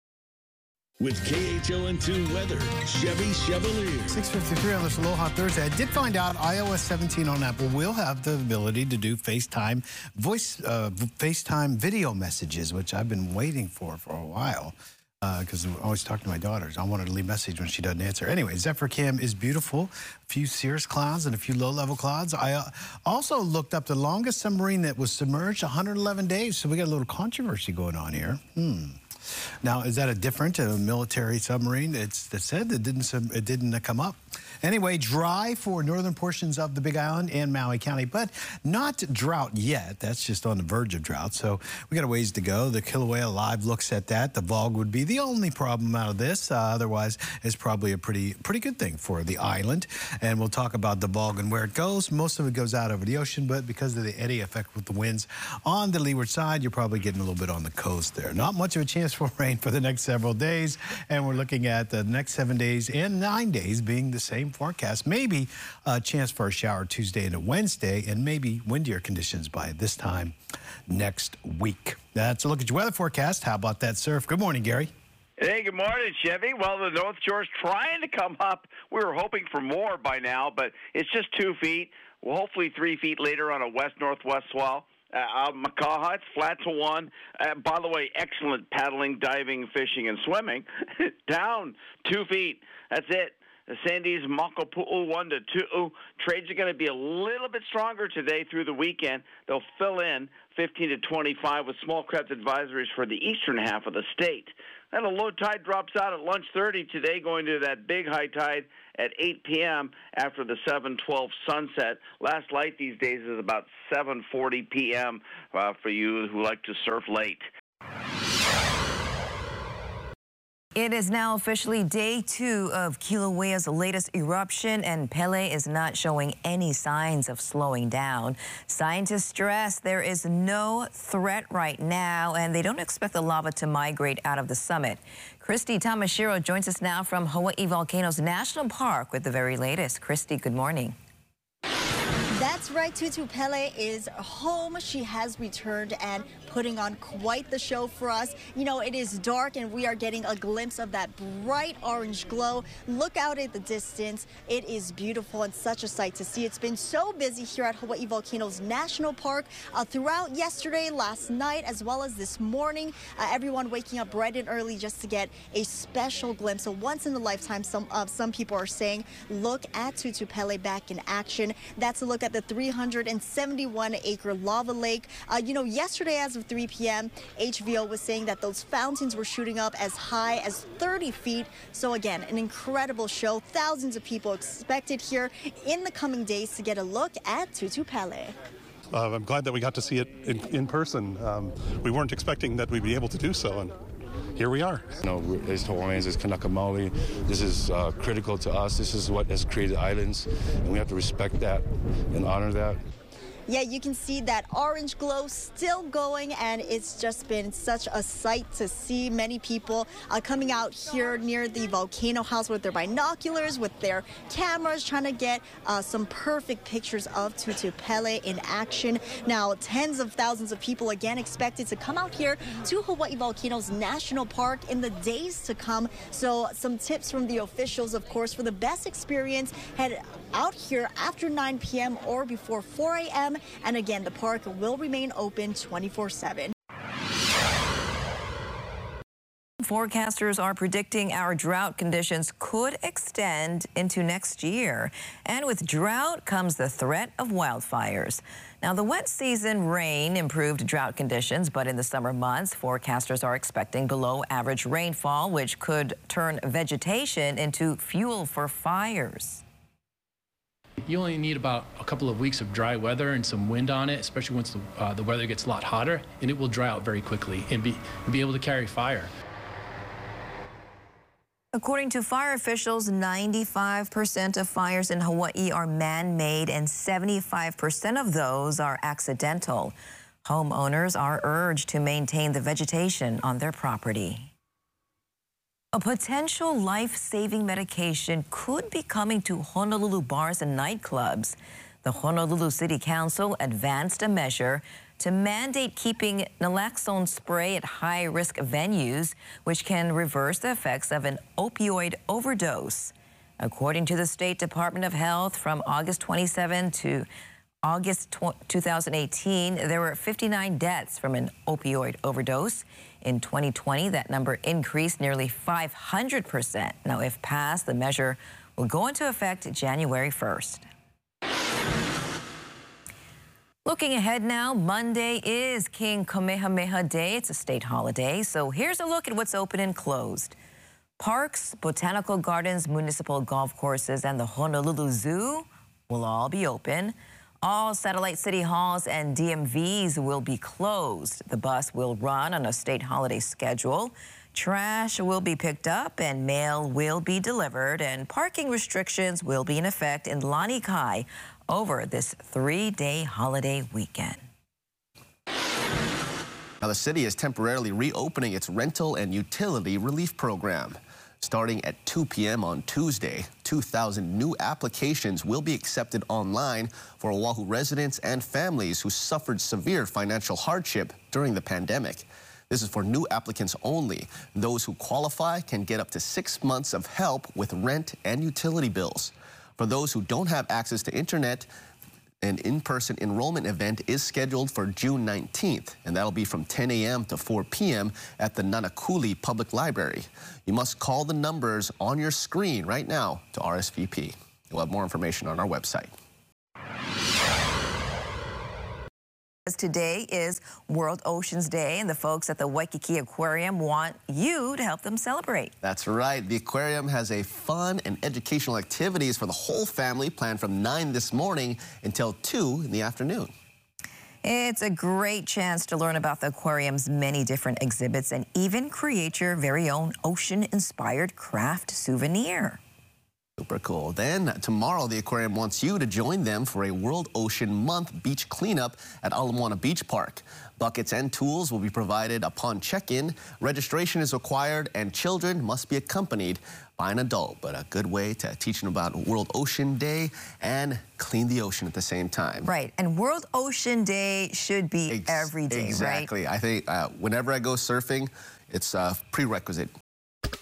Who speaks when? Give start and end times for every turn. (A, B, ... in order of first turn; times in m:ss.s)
0:01.0-0:04.2 A
0:04.1-0:29.0 B
0:29.6-1:10.4 B
1:10.9-1:14.9 B
1:15.4-1:57.4 C
2:00.8-2:21.0 D
2:22.3-3:08.3 E
3:08.9-3:13.8 F
3:14.4-3:14.9 F
3:15.0-3:22.8 G
3:23.5-3:56.5 E
3:59.6-4:19.4 D
4:20.8-4:29.1 H
4:31.5-4:44.3 D
4:45.7-5:07.1 D
5:07.6-5:20.6 D
5:23.6-5:30.4 D
5:31.0-5:54.2 D
5:56.6-6:21.5 I
6:22.2-6:35.9 I
6:39.5-6:45.5 D
6:45.6-6:53.3 I
6:54.2-7:02.6 D
7:03.4-7:22.5 I
7:22.4-7:26.1 D
7:24.9-7:29.7 I